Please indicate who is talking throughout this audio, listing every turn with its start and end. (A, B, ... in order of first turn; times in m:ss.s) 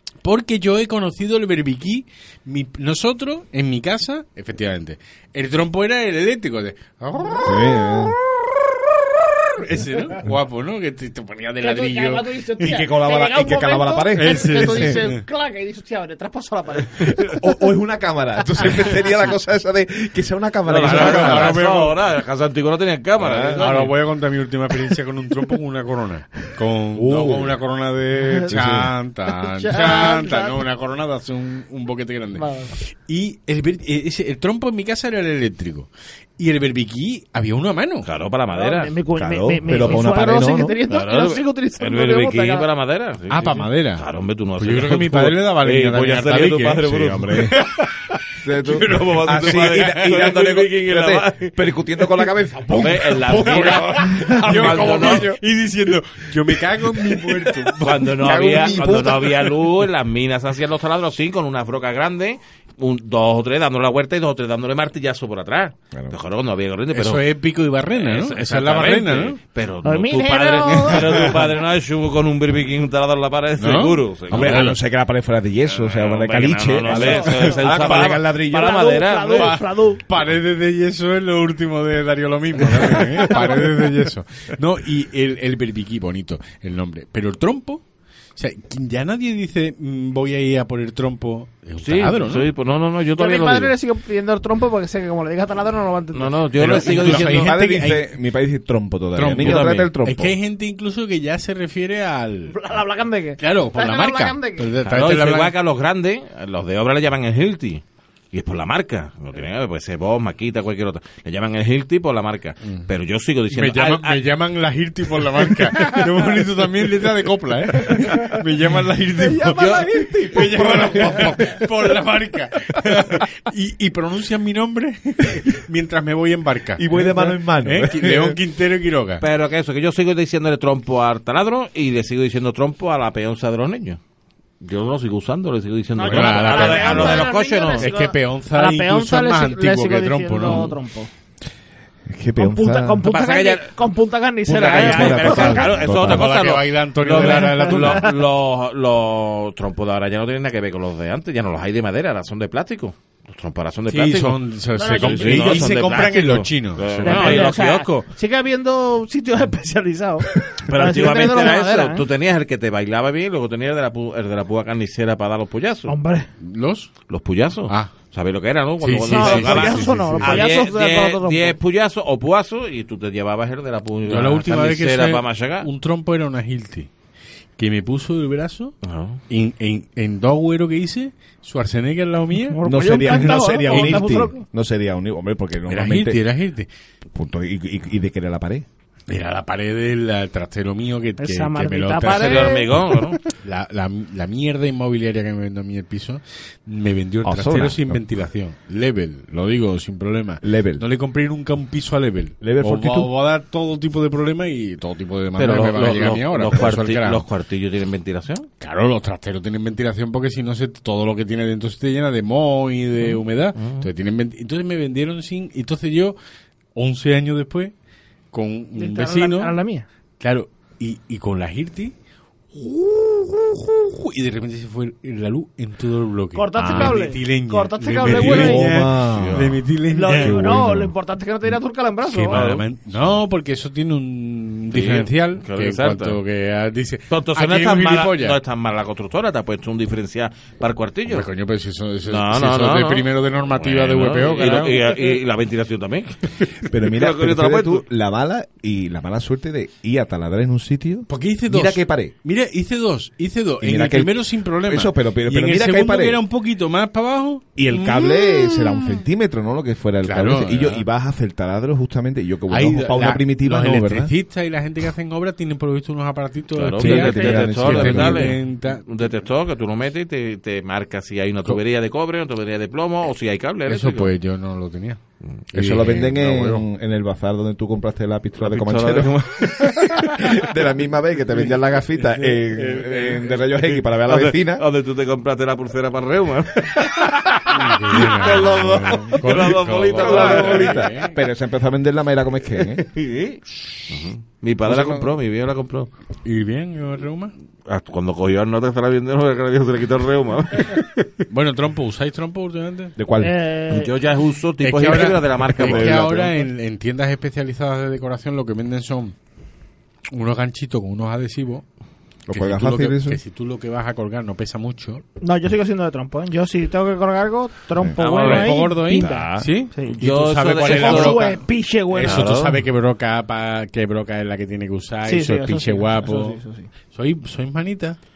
0:00.2-0:07.7 A
0:07.4-0:08.2 B
0:09.6-0:12.8 A
0:11.6-0:17.5 C
0:12.6-0:15.0 B
0:14.2-0:15.2 A
0:17.3-0:21.6 B
0:20.7-0:23.9 D
0:20.8-0:22.0 A
0:23.2-0:23.7 B
0:23.6-0:38.1 A
0:27.0-0:27.6 B
0:28.5-0:28.9 B
0:29.3-0:30.6 C
0:32.4-0:32.7 C
0:38.0-0:39.0 D
0:38.5-0:42.7 C
0:39.2-0:40.8 B
0:40.9-0:47.5 D
0:43.3-0:44.1 A
0:44.6-0:48.1 A
0:46.9-0:47.6 B
0:48.4-0:55.3 B
0:48.6-0:51.6 D
0:48.9-0:50.2 A
0:52.7-0:58.6 A
0:52.7-0:55.4 D
0:57.8-1:07.2 D
0:58.1-0:59.5 B
1:06.9-1:09.4 A
1:07.9-1:14.7 D
1:09.8-1:11.4 C
1:13.6-1:14.8 A
1:14.3-1:18.9 B
1:15.7-1:19.6 D
1:16.9-1:20.0 C
1:19.4-1:27.8 A
1:23.2-1:23.8 C
1:28.4-1:32.5 A
1:31.8-1:33.7 D
1:33.2-1:36.4 C
1:36.1-1:37.5 D
1:36.6-1:38.1 A
1:36.9-1:40.4 B
1:39.2-1:42.6 A
1:39.4-1:39.9 D
1:42.5-1:44.7 C
1:43.4-1:45.5 A
1:44.9-1:54.2 D
1:53.5-2:09.2 A
1:55.7-1:56.1 C
1:57.9-1:58.4 C
1:59.2-2:01.4 C
1:59.6-2:01.3 D
2:00.0-2:01.1 B
2:06.8-2:08.4 B
2:09.2-2:14.0 D
2:14.6-2:17.9 D
2:16.0-2:21.1 C
2:16.1-2:20.7 A
2:22.1-2:23.0 B
2:22.4-2:25.7 C
2:23.0-2:23.7 D
2:24.4-2:26.3 B
2:24.5-2:38.1 D
2:25.8-2:28.1 A
2:27.1-2:28.1 C
2:33.9-2:37.5 A
2:34.7-2:35.8 C
2:37.0-2:42.0 C
2:40.6-2:45.9 D
2:45.9-2:46.3 C
2:46.4-2:46.9 A
2:47.1-2:55.7 D
2:47.7-2:47.9 A
2:48.8-2:50.5 A
2:49.1-2:51.6 C
2:54.1-2:56.9 A
2:57.6-2:58.7 A
2:58.8-2:59.2 D
2:59.3-3:04.1 A
3:02.4-3:04.4 C
3:02.6-3:06.2 B
3:05.7-3:06.7 A
3:07.1-3:08.7 B
3:09.1-3:12.7 A
3:11.2-3:13.0 C
3:12.0-3:13.2 D
3:13.3-3:27.2 A
3:17.2-3:18.2 B
3:20.4-3:20.8 B
3:22.4-3:23.1 B
3:25.4-3:28.5 D
3:28.6-3:36.2 A
3:33.0-3:33.9 D
3:36.7-3:37.7 A
3:38.3-3:39.6 A
3:38.8-3:39.9 C
3:40.2-3:41.9 A
3:42.5-3:50.6 A
3:46.4-3:48.8 C
3:46.6-3:47.0 B
3:48.0-3:49.6 B
3:49.1-3:49.5 D
3:49.9-3:52.4 C
3:50.1-3:51.0 B
3:52.1-3:58.4 A
3:52.3-3:52.6 D
3:54.7-3:56.2 D
3:57.1-4:01.3 D
4:01.1-4:04.8 A
4:02.0-4:07.8 D
4:06.7-4:12.1 B
4:11.1-4:17.9 A
4:13.6-4:16.2 B
4:17.6-4:24.1 B
4:18.7-4:19.0 C
4:20.0-4:20.8 A
4:22.5-4:28.9 A
4:26.6-4:34.1 D
4:26.8-4:28.4 B
4:33.7-4:35.0 A
4:35.5-4:36.7 A
4:35.5-4:44.6 B
4:38.4-4:40.5 D
4:41.3-4:43.5 A
4:43.8-4:50.9 D
4:47.5-4:51.2 A
4:48.2-4:49.3 B
4:50.0-4:52.9 B
4:52.7-4:55.9 D
4:54.6-4:55.1 B
4:56.2-4:57.3 A
4:57.7-5:01.2 D
5:01.3-5:03.0 A
5:03.0-5:03.3 B
5:03.2-5:03.9 C
5:03.7-5:06.3 D
5:04.6-5:09.2 A
5:05.6-5:06.1 B
5:10.1-5:11.7 A
5:12.3-5:13.2 B
5:12.3-5:15.0 A
5:15.2-5:19.9 C
5:17.8-5:18.0 B
5:18.0-5:18.6 D
5:18.2-5:21.4 A
5:18.9-5:19.5 B
5:19.9-5:21.4 D
5:20.6-5:22.3 C
5:21.9-5:22.6 D
5:21.9-5:26.4 A
5:25.1-5:26.7 C
5:26.9-5:28.0 A